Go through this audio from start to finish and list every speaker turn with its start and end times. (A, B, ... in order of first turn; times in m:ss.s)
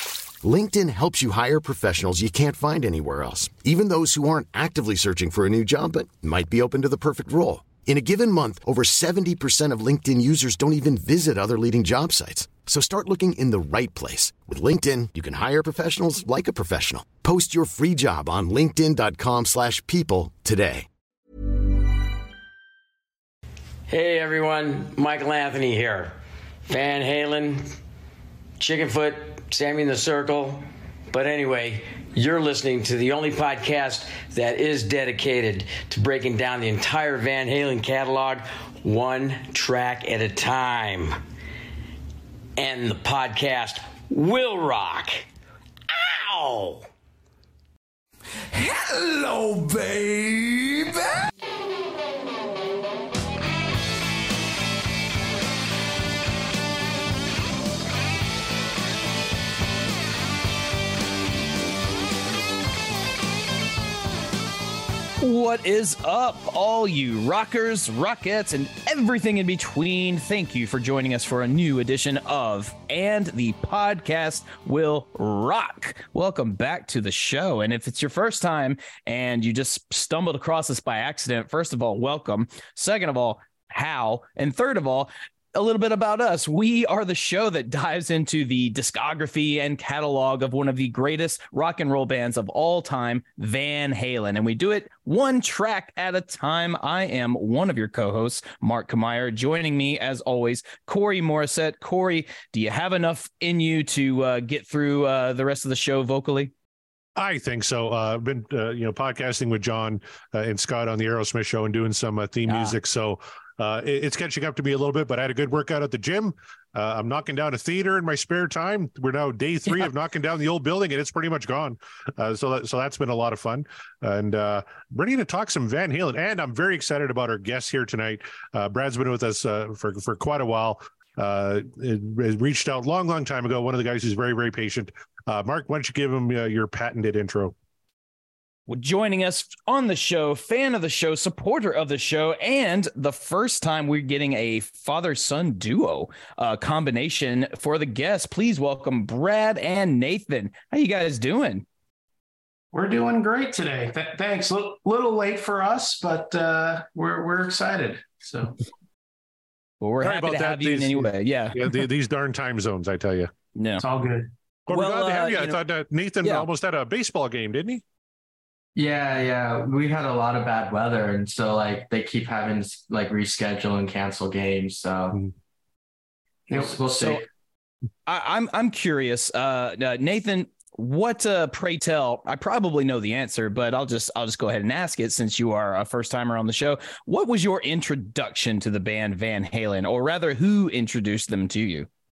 0:00.4-0:20.9 A
0:23.9-0:26.2 B
0:26.7-0:27.6 B
0:28.6-0:41.2 B
0:42.6-0:45.2 B
0:46.2-0:46.8 B
0:48.5-0:51.2 C
1:05.2-1:46.5 D
1:47.2-2:17.5 E
1:52.5-1:52.8 D
2:18.7-2:31.6 D
2:32.7-2:38.6 F
2:39.8-2:41.6 D
2:40.0-2:43.3 E
2:43.5-2:43.8 D
2:43.8-2:44.3 F
2:44.7-2:45.6 D
2:44.7-2:47.8 E
2:48.8-2:55.2 G
2:56.5-2:57.2 G
2:56.9-2:57.2 D
2:58.0-3:11.9 D